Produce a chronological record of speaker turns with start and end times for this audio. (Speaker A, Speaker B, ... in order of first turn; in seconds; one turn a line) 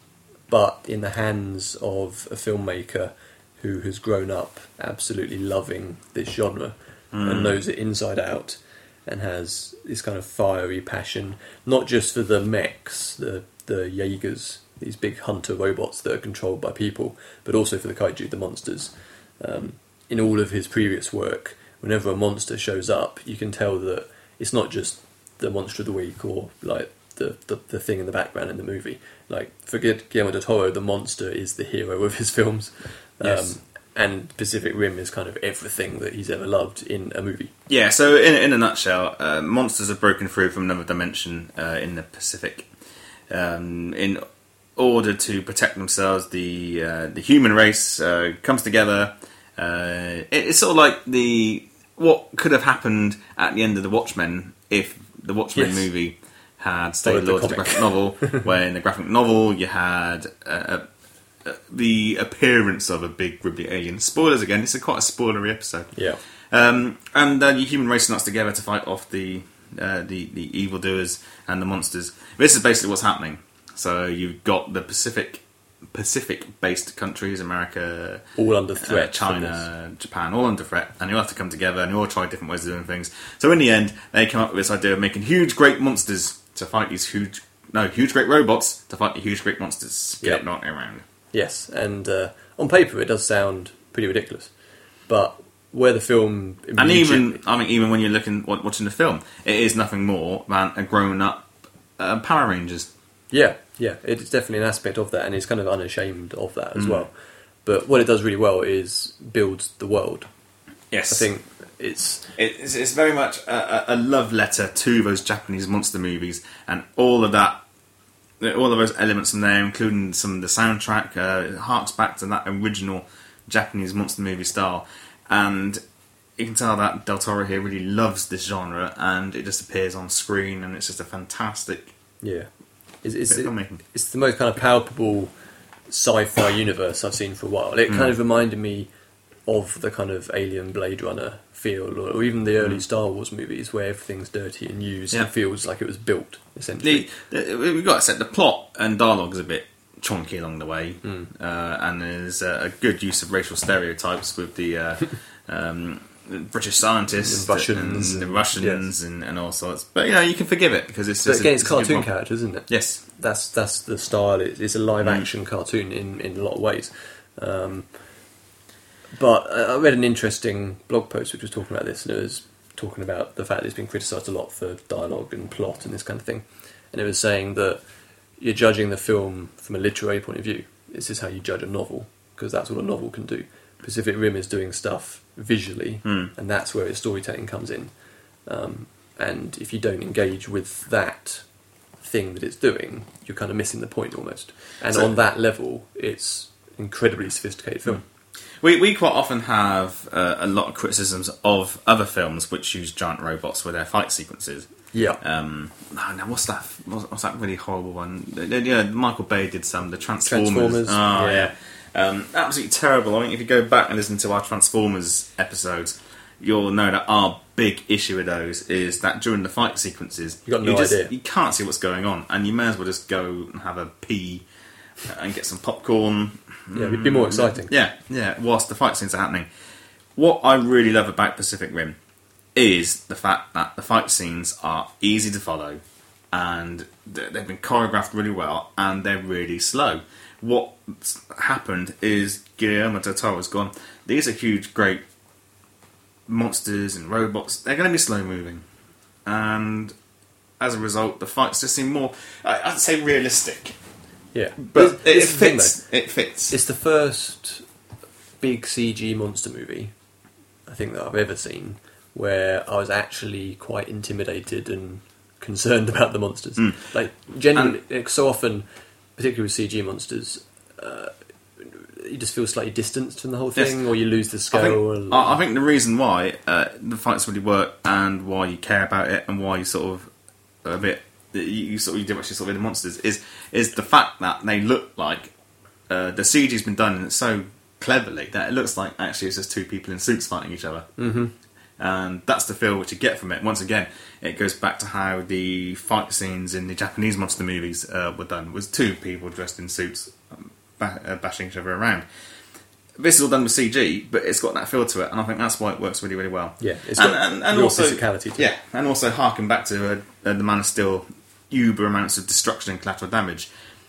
Speaker A: 0.5-37.5
Speaker B: 7.1-7.6
Speaker B: 33.2-33.5
Speaker B: 37.7-42.7
Speaker B: 43.3-44.2
Speaker B: 44.8-60.9
Speaker A: 55.5-55.9
Speaker A: 57.0-58.4
Speaker B: 61.4-65.9
Speaker A: 65.9-66.2
Speaker B: 66.5-78.2
Speaker A: 78.3-79.6
Speaker B: 78.8-91.0
Speaker A: 91.3-94.5
Speaker A: 95.1-97.4
Speaker B: 96.8-102.9
Speaker A: 103.3-107.1
Speaker B: 106.8-107.0
Speaker A: 107.6-110.3
Speaker B: 110.9-111.3
Speaker A: 111.1-112.3
Speaker B: 112.3-117.6
Speaker B: 118.4-125.8
Speaker B: 126.4-131.9
Speaker A: 132.2-132.5
Speaker A: 133.0-135.3
Speaker B: 133.3-133.8
Speaker A: 135.9-138.9
Speaker A: 139.5-147.1
Speaker B: 146.8-162.1
Speaker A: 151.0-151.3
Speaker A: 157.2-158.9
Speaker A: 161.2-167.9
Speaker B: 162.7-163.0
Speaker A: 169.1-177.8
Speaker A: 178.4-187.9
Speaker A: 188.5-191.4
Speaker A: 192.0-198.0
Speaker B: 198.6-204.7
Speaker A: 204.9-205.2
Speaker B: 205.2-224.4
Speaker A: 210.2-211.5
Speaker A: 220.4-221.1
Speaker B: 225.0-229.5
Speaker A: 226.7-227.7
Speaker B: 230.2-232.0
Speaker B: 232.5-235.8
Speaker B: 236.3-245.0
Speaker B: 246.3-248.6
Speaker B: 249.2-249.9
Speaker B: 250.6-253.8
Speaker A: 254.3-255.8
Speaker B: 254.6-256.5
Speaker A: 256.5-257.6
Speaker A: 258.4-259.9
Speaker A: 260.7-268.6
Speaker A: 269.1-275.4
Speaker B: 274.5-280.1
Speaker B: 280.6-285.3
Speaker B: 285.9-290.9
Speaker A: 291.0-291.3
Speaker B: 291.8-302.0
Speaker B: 303.0-313.5
Speaker A: 306.6-308.5